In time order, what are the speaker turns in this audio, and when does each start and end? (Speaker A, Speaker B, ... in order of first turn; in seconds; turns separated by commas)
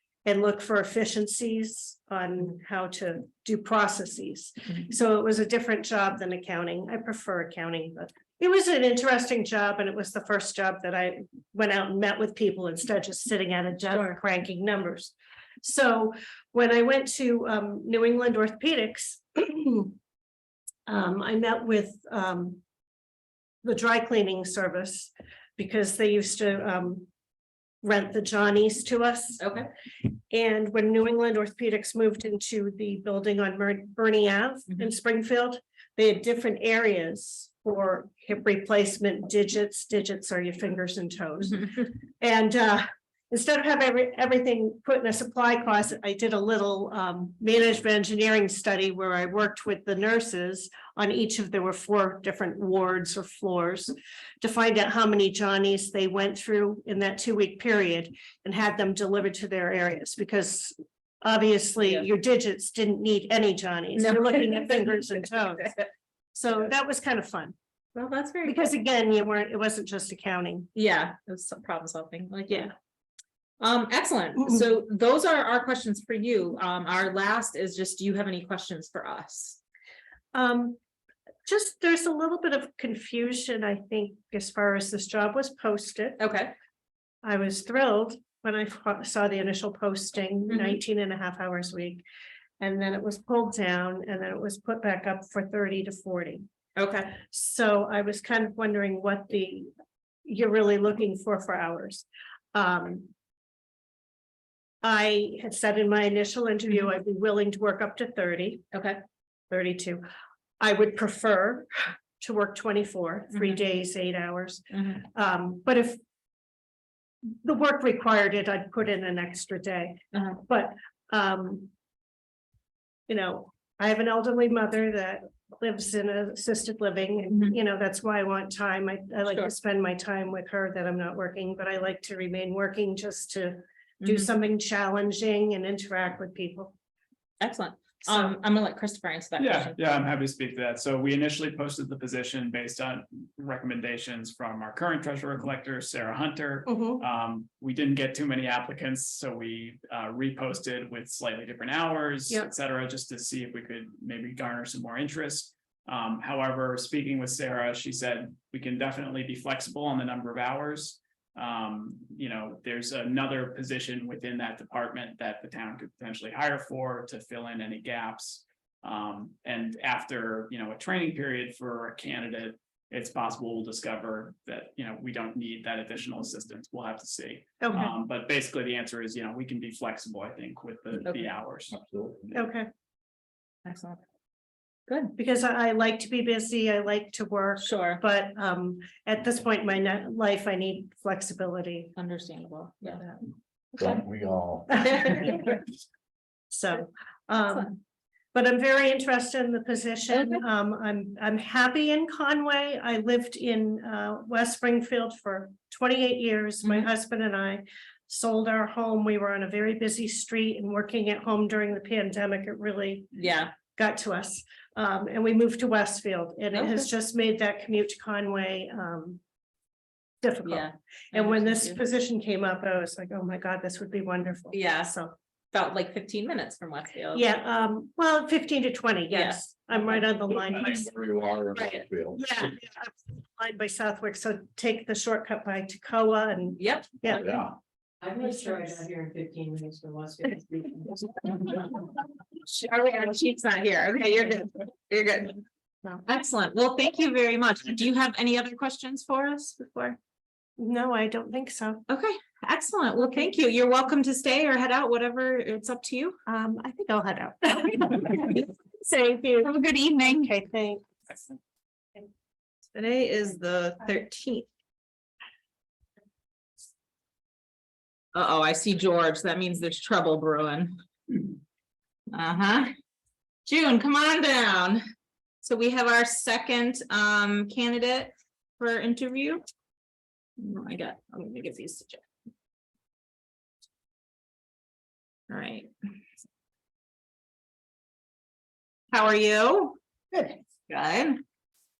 Speaker A: 0.2-20.0, Speaker A: 20.9-22.6, Speaker A: 23.6-27.1, Speaker A: 27.8-29.4, Speaker B: 29.4-29.7, Speaker A: 30.3-65.8, Speaker B: 64.0-64.9, Speaker B: 65.6-65.9, Speaker A: 66.3-67.5, Speaker B: 68.0-68.6, Speaker A: 68.5-70.7, Speaker B: 70.8-72.7, Speaker B: 73.6-79.6, Speaker A: 80.3-80.8, Speaker A: 81.5-86.2, Speaker B: 86.2-86.5, Speaker A: 87.2-92.0, Speaker B: 90.5-90.8, Speaker A: 92.6-96.4, Speaker B: 96.8-97.2, Speaker A: 97.2-99.7, Speaker A: 100.2-103.1, Speaker A: 104.8-108.7, Speaker B: 108.7-109.0, Speaker A: 109.5-110.0, Speaker A: 110.6-116.0, Speaker B: 114.7-115.0, Speaker A: 117.4-121.7, Speaker B: 120.1-120.4, Speaker A: 123.1-136.7, Speaker B: 134.0-134.3, Speaker B: 137.4-139.8, Speaker A: 138.1-138.3, Speaker C: 139.4-181.8, Speaker A: 146.7-147.0, Speaker A: 177.6-177.9, Speaker D: 181.7-182.4, Speaker A: 182.3-182.7, Speaker B: 183.7-184.0, Speaker B: 184.9-185.1, Speaker A: 185.2-191.9, Speaker B: 187.6-188.0, Speaker B: 192.0-193.2, Speaker D: 193.8-195.4, Speaker B: 194.8-195.3, Speaker A: 196.5-197.8, Speaker A: 198.3-213.1, Speaker B: 200.1-200.4, Speaker B: 206.6-206.9, Speaker B: 213.1-213.5, Speaker A: 213.7-219.2, Speaker B: 216.5-216.9, Speaker A: 220.2-225.1, Speaker B: 220.4-221.8, Speaker B: 224.5-225.0, Speaker B: 225.5-227.3, Speaker A: 227.1-230.9, Speaker B: 229.1-230.1, Speaker D: 230.4-232.4, Speaker A: 231.6-237.4, Speaker B: 236.6-236.9, Speaker D: 237.1-237.6, Speaker E: 238.0-240.7, Speaker B: 242.4-245.4, Speaker B: 246.1-250.0, Speaker A: 250.6-251.8, Speaker B: 251.9-256.2, Speaker A: 256.3-258.4, Speaker B: 258.2-260.3, Speaker A: 260.1-260.9, Speaker B: 262.8-264.5, Speaker B: 268.1-270.8, Speaker B: 272.1-272.7, Speaker B: 273.4-274.8, Speaker B: 275.4-279.4, Speaker B: 280.4-282.0, Speaker B: 285.3-285.7, Speaker B: 288.9-289.8, Speaker B: 290.7-291.2